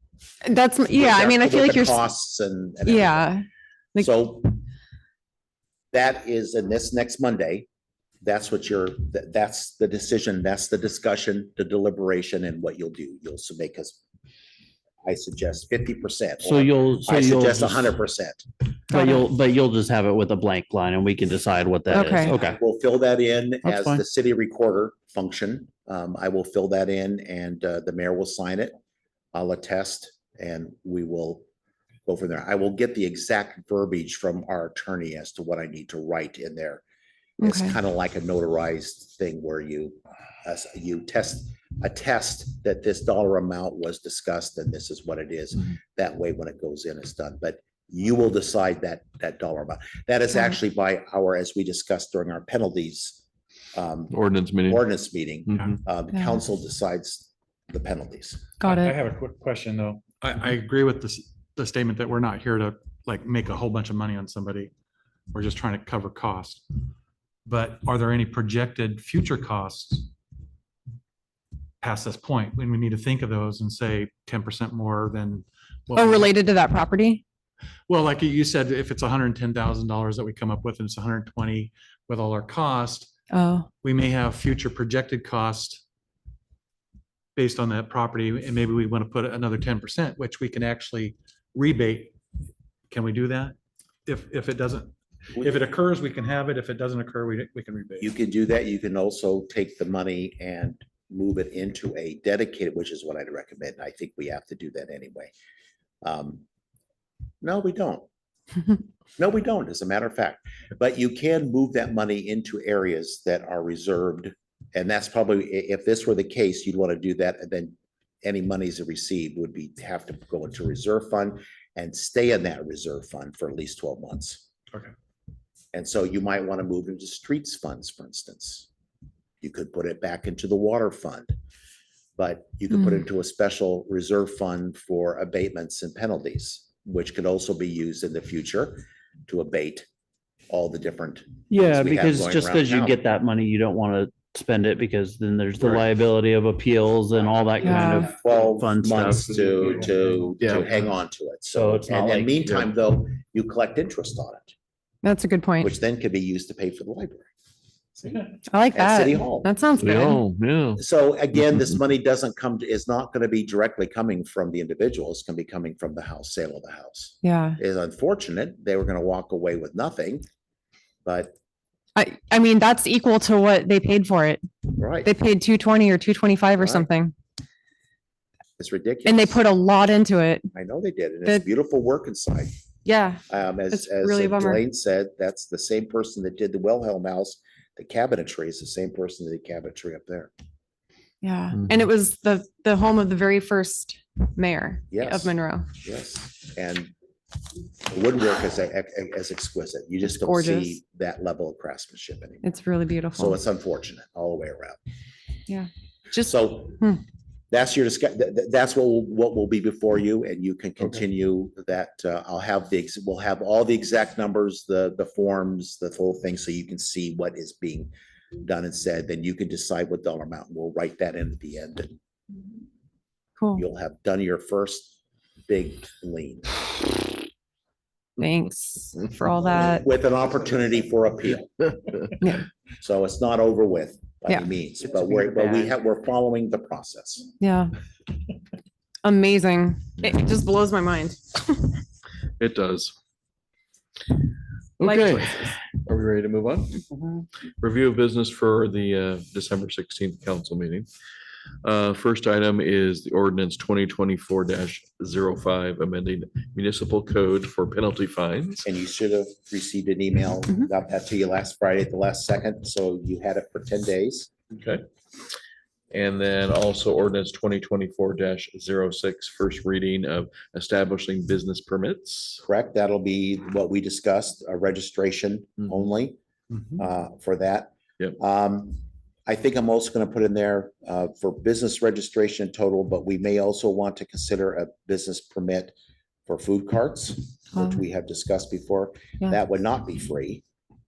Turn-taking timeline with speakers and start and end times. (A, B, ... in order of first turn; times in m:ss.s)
0:00.4-0:02.0 A
0:00.9-0:03.3 B
0:02.8-0:04.2 A
0:04.0-0:04.6 B
0:05.9-0:07.7 B
0:08.2-0:14.0 B
0:15.0-0:18.4 B
0:16.4-0:18.0 C
0:18.9-0:22.6 C
0:18.9-0:19.2 A
0:21.9-0:22.3 A
0:22.2-0:28.7 B
0:23.6-0:24.0 D
0:29.3-0:31.4 B
0:32.0-0:36.8 B
0:37.4-0:37.7 A
0:37.4-0:53.2 B
0:53.7-0:58.5 B
0:54.1-0:54.8 E
0:55.5-0:55.8 E
0:58.6-0:59.0 A
0:58.6-1:04.7 D
1:05.3-1:06.6 D
1:07.4-1:10.1 D
1:11.8-1:16.3 D
1:15.9-1:17.2 A
1:17.9-1:23.1 D
1:23.3-1:23.7 A
1:23.8-1:25.8 D
1:27.4-1:32.1 D
1:32.9-1:38.1 D
1:38.0-1:45.3 B
1:46.0-1:46.4 B
1:47.4-1:48.0 B
1:49.2-2:04.4 B
2:05.7-2:08.7 B
2:09.4-2:11.3 B
2:12.2-2:19.9 B
2:20.5-2:23.0 B
2:21.5-2:29.8 C
2:27.6-2:28.1 A
2:28.0-2:34.5 B
2:30.4-2:30.7 E
2:31.5-2:32.7 C
2:35.0-2:35.7 A
2:35.6-2:37.3 B
2:38.0-2:39.5 B
2:38.5-2:40.2 A
2:39.8-2:40.8 E
2:40.8-2:50.2 B
2:47.2-2:47.6 A
2:51.0-2:51.3 B
2:51.9-2:54.4 A
2:54.8-2:55.1 B
2:55.0-2:57.1 A
2:56.6-2:56.9 B
2:58.6-2:59.4 B
2:59.0-3:00.5 A
3:00.5-3:02.5 B
3:02.8-3:04.6 A
3:03.3-3:10.3 B
3:11.2-3:15.7 A
3:14.9-3:16.9 B
3:17.9-3:22.5 B
3:20.2-3:20.8 A
3:22.4-3:23.4 A
3:23.1-3:24.8 B
3:25.5-3:27.0 A
3:26.2-3:26.8 B
3:27.5-3:42.0 B
3:43.4-3:43.6 A
3:43.5-3:45.0 B
3:45.5-3:46.7 B
3:48.2-3:49.8 A
3:49.4-3:51.7 B
3:52.8-3:57.3 B
3:57.4-3:57.7 A
3:59.0-4:01.7 A
4:02.4-4:02.9 E
4:04.8-4:06.9 E
4:04.8-4:05.3 A
4:07.6-4:10.9 E
4:11.6-4:18.7 E
4:18.6-4:24.3 B
4:24.5-4:24.8 E
4:25.9-4:32.4 E
4:32.4-4:36.2 B
4:36.8-4:45.7 B
4:46.3-4:50.4 B
4:47.5-4:47.8 A